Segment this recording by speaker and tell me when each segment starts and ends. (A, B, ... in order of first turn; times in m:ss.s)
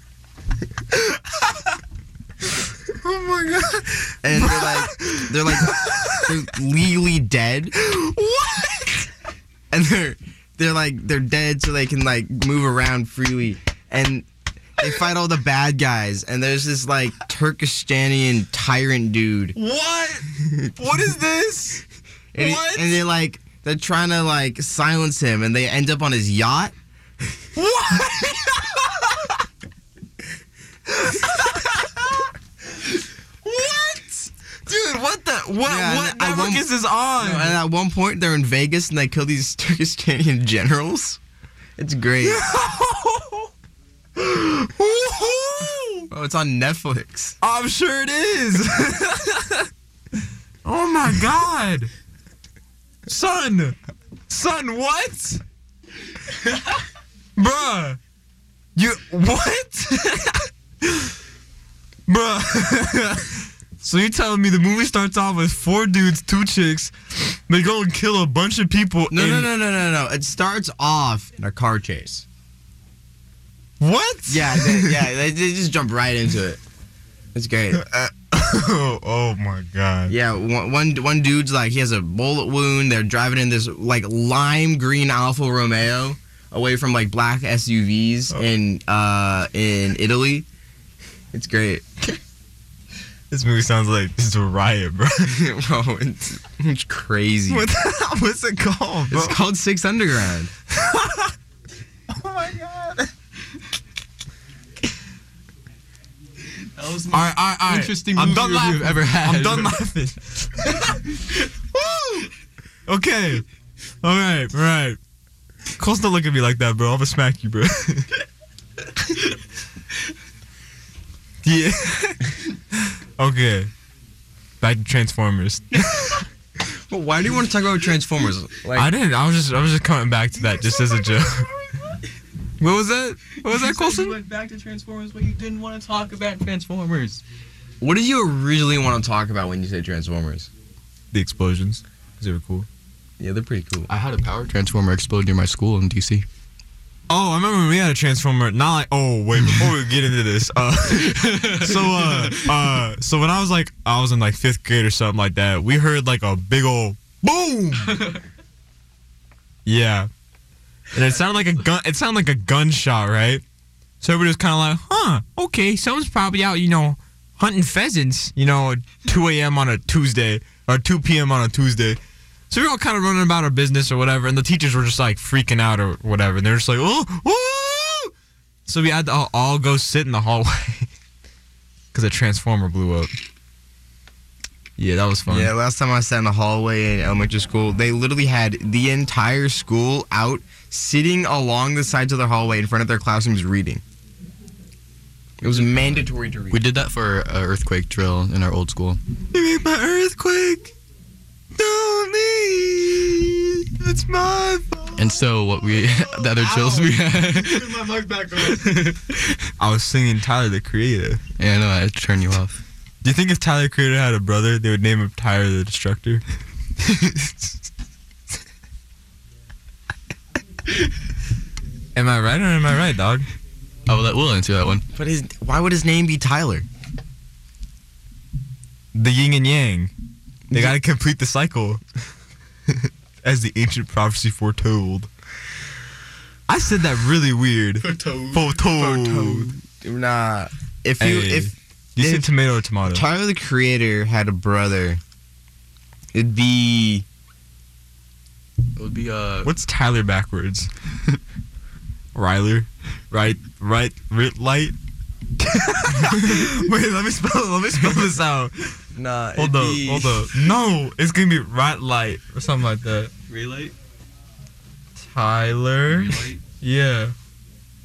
0:02.9-0:06.4 A
0:04.2-0:07.7 B
0:07.7-0:09.1 A
0:09.7-0:14.3 B
0:14.8-0:19.6 B
0:19.6-0:21.8 A
0:22.3-0:26.7 B
0:22.4-0:23.0 A
0:27.6-0:29.4 A
0:30.9-0:32.3 A
0:33.4-0:37.6 A
0:35.7-0:41.2 B
0:41.8-0:42.4 B
0:42.2-0:43.5 A
0:44.2-0:46.1 A
0:46.1-0:47.4 B
0:47.4-0:49.7 A
0:50.6-0:51.9 A
0:53.1-0:53.8 A
0:54.3-0:55.4 A
0:57.4-0:58.0 A
0:58.8-1:01.2 A
1:02.1-1:09.5 A
1:09.1-1:12.3 B
1:13.8-1:15.0 A
1:14.3-1:16.6 B
1:17.4-1:17.8 B
1:17.7-1:20.2 A
1:20.1-1:30.5 B
1:31.3-1:31.9 B
1:33.3-1:35.4 A
1:35.3-1:37.7 B
1:37.5-1:39.4 A
1:39.1-1:40.5 B
1:40.7-1:41.3 A
1:42.1-1:43.1 A
1:46.6-1:49.8 C
1:47.1-1:51.0 A
1:51.7-1:52.3 A
1:52.9-1:53.4 A
1:54.0-1:55.0 A
1:55.8-1:58.1 A
2:01.4-2:03.7 A
2:04.6-2:06.2 A
2:06.6-2:08.9 B
2:08.8-2:11.5 A
2:10.6-2:11.3 C
2:12.6-2:14.2 A
2:13.4-2:17.2 C
2:17.8-2:20.5 B
2:21.1-2:22.7 A
2:23.2-2:23.9 B
2:23.9-2:26.3 C
2:27.1-2:38.0 A
2:30.9-2:32.7 C
2:37.9-2:38.2 C
2:39.7-2:40.1 A
2:40.9-2:43.4 A
2:44.0-2:52.0 A
2:52.5-2:58.1 A
2:58.7-3:00.9 A
3:01.9-3:03.1 A
3:04.8-3:05.5 A
3:05.3-3:13.8 B
3:15.4-3:16.6 B
3:15.4-3:19.0 C
3:19.3-3:20.7 A
3:21.6-3:25.2 A
3:25.0-3:29.5 C
3:25.8-3:28.8 A
3:29.6-3:31.2 A
3:31.4-3:32.6 C
3:33.0-3:36.2 A
3:36.8-3:37.6 A
3:42.0-3:43.3 A
3:43.9-3:44.8 C
3:44.9-3:46.7 B
3:48.9-3:49.9 A
3:50.5-3:51.8 A
3:52.7-3:55.1 A
3:56.5-3:59.5 A
3:57.8-3:58.6 C
3:58.7-4:02.3 B
4:01.0-4:03.0 A
4:02.9-4:05.0 B
4:06.1-4:07.1 B
4:08.8-4:09.5 C
4:09.4-4:10.7 A
4:12.2-4:14.8 A
4:15.4-4:18.8 A
4:19.0-4:20.3 B
4:19.4-4:23.1 A
4:23.3-4:23.7 C
4:25.0-4:27.2 A
4:25.9-4:26.4 C